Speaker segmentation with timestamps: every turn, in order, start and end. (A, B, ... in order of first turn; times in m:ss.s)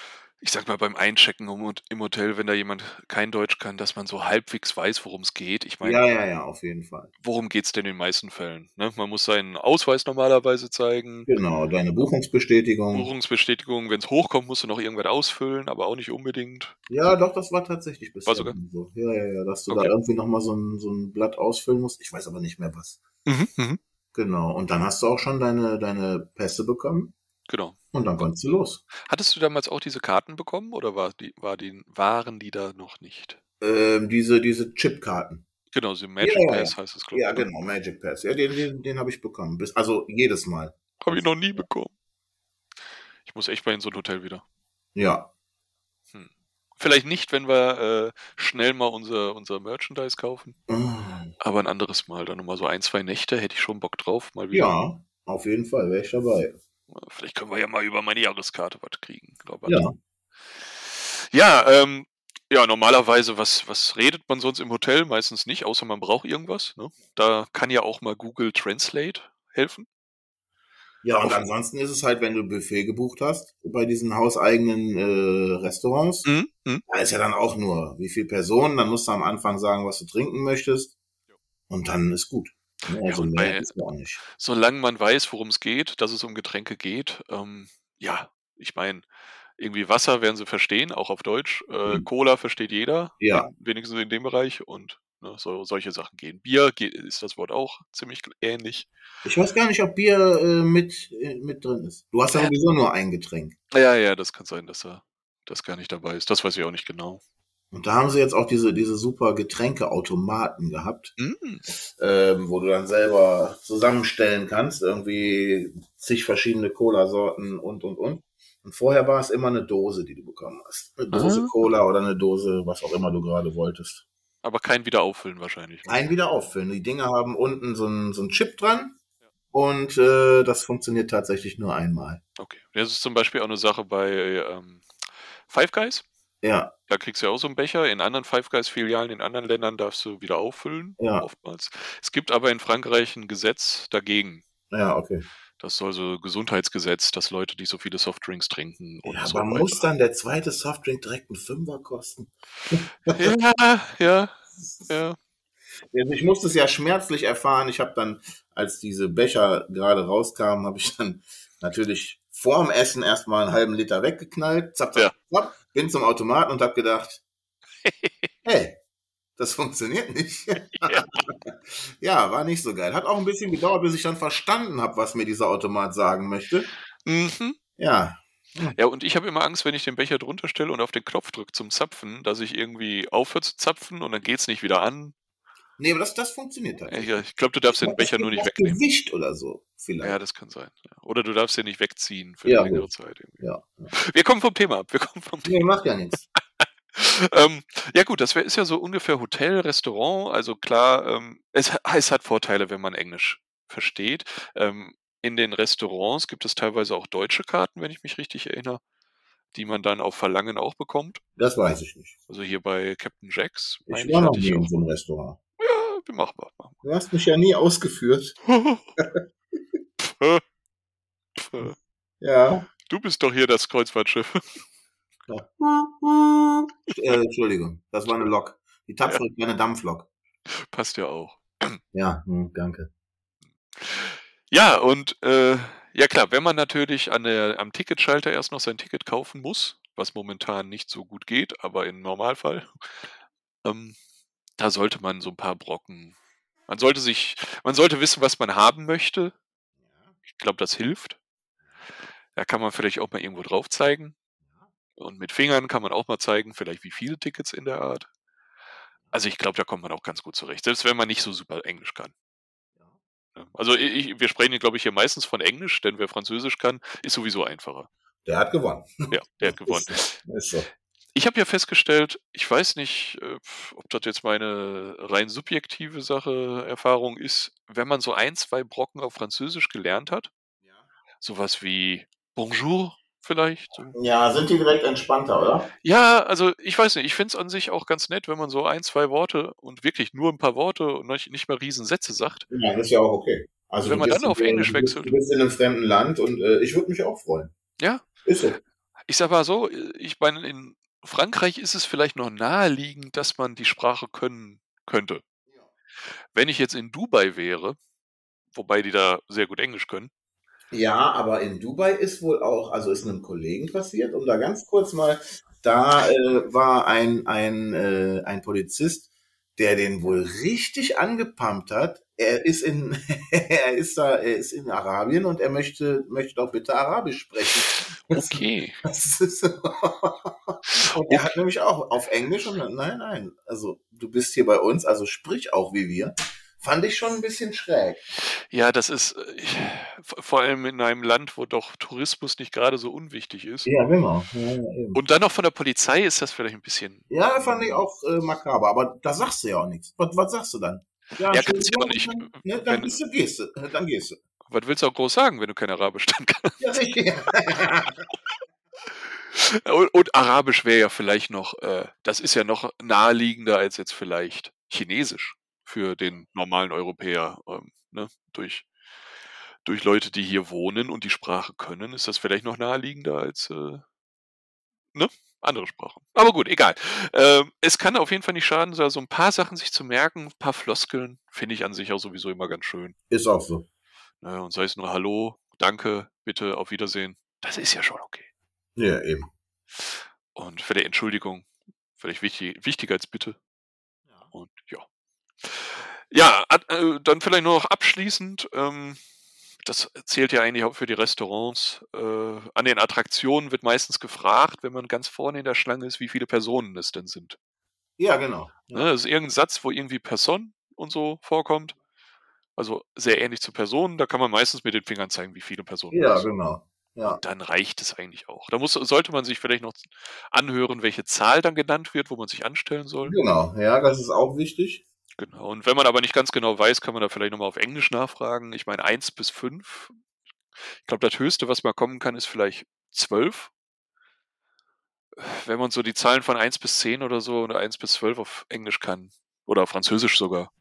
0:00.4-0:06.0 A
0:05.8-0:07.1 B
0:07.2-0:11.3 A
0:11.3-0:13.1 B
0:12.9-0:16.7 A
0:16.9-0:23.0 B
0:18.2-0:18.6 A
0:19.7-0:19.9 A
0:23.2-0:23.8 A
0:24.1-0:27.1 B
0:27.5-0:28.3 A
0:27.9-0:28.8 B
0:29.0-0:33.4 A
0:33.6-0:35.4 B
0:35.7-0:37.5 A
0:36.2-0:41.6 B
0:41.0-0:41.9 A
0:43.2-0:44.4 A
0:44.9-0:45.3 B
0:46.1-0:50.6 A
0:50.7-0:51.3 B
0:51.4-0:54.7 A
0:54.5-0:56.6 B
0:56.9-0:59.9 A
0:59.6-0:59.9 B
1:00.7-1:09.8 A
1:11.0-1:16.3 B
1:16.2-1:16.8 A
1:16.9-1:20.9 B
1:21.7-1:24.2 B
1:23.0-1:23.7 A
1:24.3-1:29.0 A
1:29.6-1:38.9 A
1:33.2-1:33.5 B
1:39.2-1:43.6 B
1:43.7-1:47.2 A
1:47.7-1:51.1 B
1:51.2-1:51.6 A
1:51.7-2:04.0 B
2:01.1-2:01.5 A
2:04.4-2:05.9 A
2:05.8-2:09.0 B
2:09.5-2:12.2 B
2:12.4-2:14.8 A
2:15.5-2:16.0 A
2:16.4-2:16.7 B
2:16.9-2:24.4 A
2:21.0-2:21.3 B
2:24.7-2:25.2 B
2:25.6-2:29.8 A
2:29.0-2:33.2 B
2:33.1-2:35.2 A
2:34.5-2:35.0 B
2:35.9-2:47.2 B
2:47.8-2:48.3 A
2:48.4-2:48.8 B
2:49.4-2:56.7 B
2:50.8-2:51.2 A
2:57.0-2:57.6 A
2:57.8-2:58.8 B
2:58.7-3:05.1 A
3:05.8-3:10.2 B
3:06.9-3:08.8 A
3:10.0-3:15.6 A
3:12.4-3:13.9 B
3:15.4-3:16.2 B
3:16.9-3:28.8 A
3:29.5-3:31.2 A
3:31.4-3:32.1 B
3:32.3-3:34.8 A
3:33.9-3:35.4 B
3:35.6-3:36.8 A
3:36.8-3:38.4 B
3:38.4-3:39.0 A
3:40.0-3:40.4 A
3:41.4-3:41.8 A
3:42.2-3:42.7 B
3:42.9-3:44.6 A
3:45.3-3:50.1 B
3:50.5-3:51.8 A
3:51.9-3:52.9 B
3:53.8-4:02.8 A
4:03.6-4:04.0 A
4:04.6-4:06.1 A
4:06.7-4:09.3 A
4:09.9-4:10.1 B
4:10.3-4:11.2 A
4:12.3-4:14.2 A
4:15.0-4:18.1 A
4:19.1-4:22.1 A
4:23.4-4:27.9 A
4:28.2-4:30.7 B
4:29.1-4:30.2 A
4:31.1-4:40.3 A
4:41.2-4:43.9 A
4:43.9-4:45.7 B
4:45.8-4:52.5 A
4:52.5-4:57.5 B
4:53.8-4:55.2 A
4:57.8-4:58.0 A
4:58.2-4:58.6 B
4:59.1-5:05.2 A
5:06.3-5:07.8 A
5:08.5-5:10.1 A
5:10.7-5:38.1 B
5:27.7-5:28.8 A
5:30.6-5:31.3 A
5:38.2-5:43.7 A
5:43.6-5:45.0 B
5:44.9-5:47.9 A
5:47.1-5:54.2 B
5:51.3-5:53.0 A
5:54.5-5:56.7 A
5:56.6-5:58.0 B
5:58.8-6:08.7 A
6:09.6-6:13.8 A
6:14.9-6:22.9 A
6:23.1-6:23.6 B
6:24.2-6:28.3 A
6:28.8-6:29.3 B
6:29.8-6:33.4 A
6:34.3-6:34.8 A
6:35.4-6:39.0 A
6:39.6-6:47.4 A
6:48.0-6:48.9 B
6:48.7-6:51.8 A
6:52.6-6:56.3 A
6:55.9-6:57.2 B
6:57.1-7:03.2 A
7:03.0-7:04.8 B
7:05.2-7:09.9 A
7:10.8-7:13.5 A
7:15.2-7:20.5 A